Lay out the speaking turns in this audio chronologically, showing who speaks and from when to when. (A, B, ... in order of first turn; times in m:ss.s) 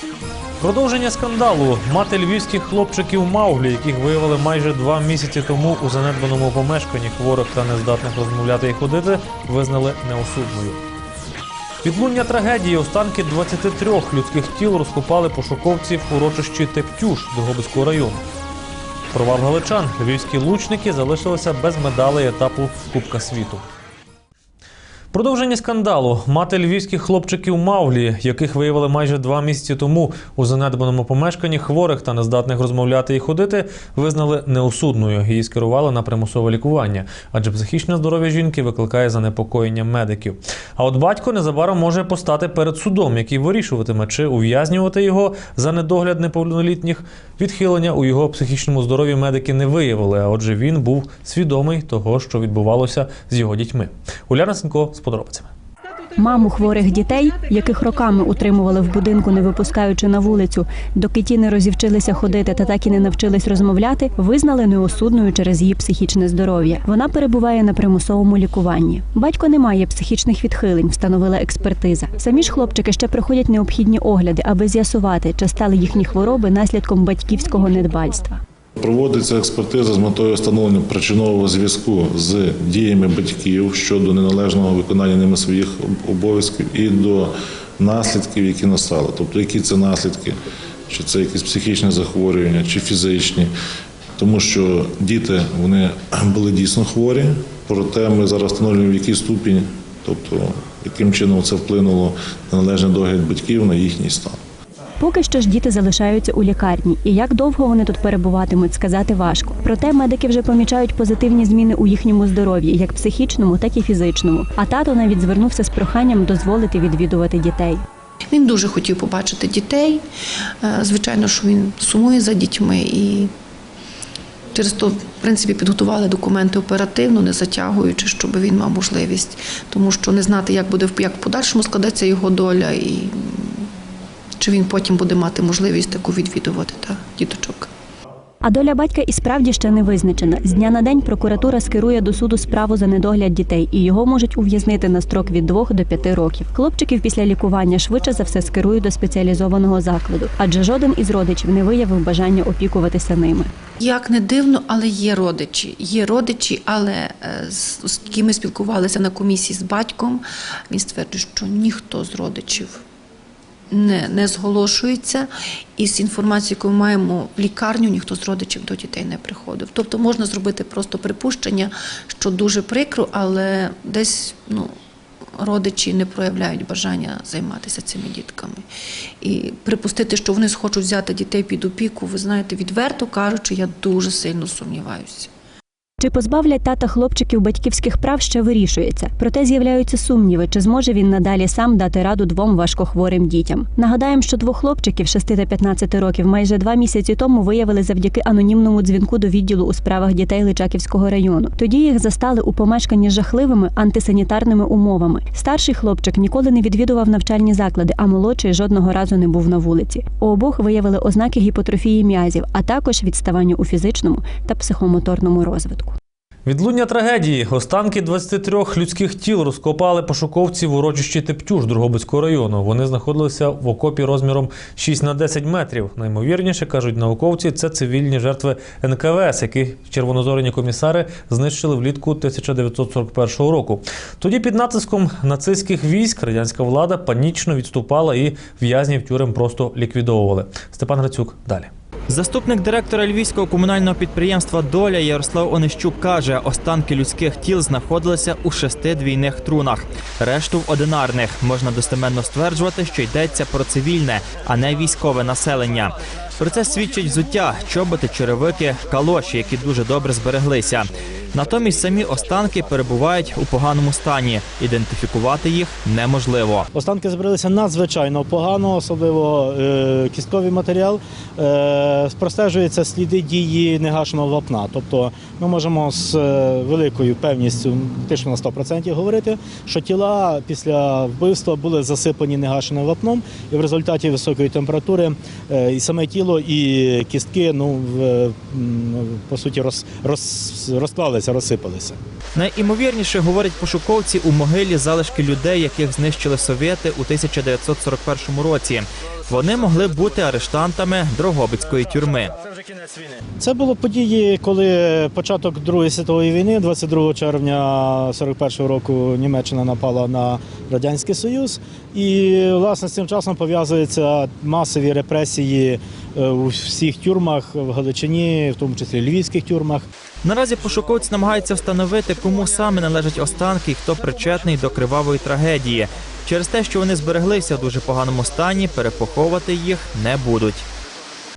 0:00.6-0:10.8 A
0:11.8-0:18.2 A
0:19.1-0:23.6 A
0:25.1-0:55.5 A
0:56.2-1:18.4 B
1:18.8-1:30.3 C
1:30.9-1:33.5 C
1:34.2-1:44.4 C
1:45.0-1:57.8 B
1:58.3-2:00.0 D
2:00.6-2:03.3 D
2:04.5-2:13.4 D
2:14.4-2:17.7 D
2:18.4-2:33.5 B
2:33.8-2:42.8 D
2:43.7-2:54.7 D
2:55.4-2:58.6 D
2:59.2-3:05.3 D
3:06.0-3:36.0 B
3:36.4-4:01.7 A
4:02.1-4:26.6 E
4:26.7-4:52.0 F
4:52.3-5:02.3 E
5:03.4-5:19.9 F
5:20.2-5:30.6 E